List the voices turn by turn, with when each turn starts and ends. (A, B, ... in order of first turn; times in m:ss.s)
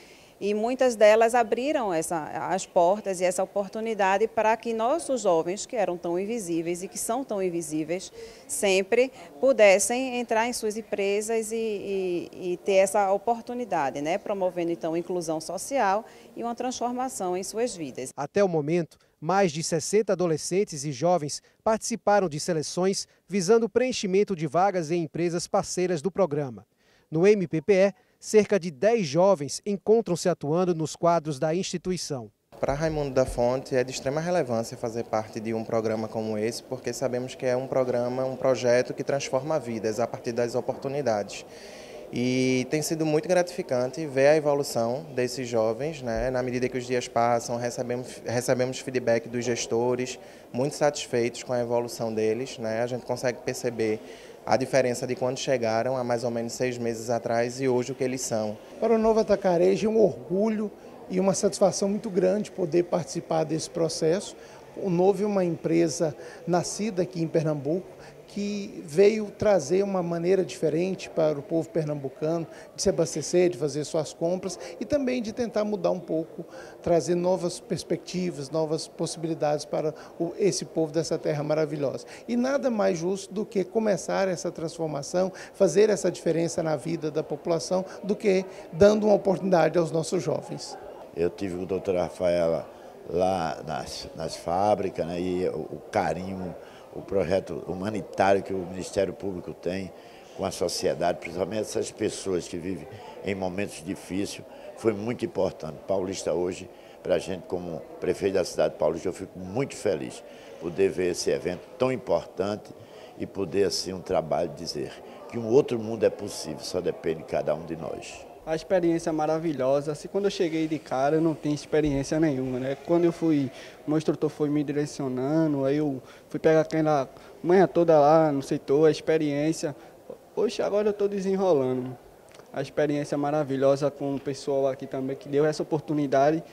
0:00.4-0:18.1 A
0:18.2-0:32.3 B
0:32.6-0:41.5 C
0:42.1-0:58.6 C
0:58.8-1:30.8 D
1:31.1-1:58.2 E
1:58.4-2:09.8 F
2:10.3-2:12.0 F
2:12.5-2:16.4 F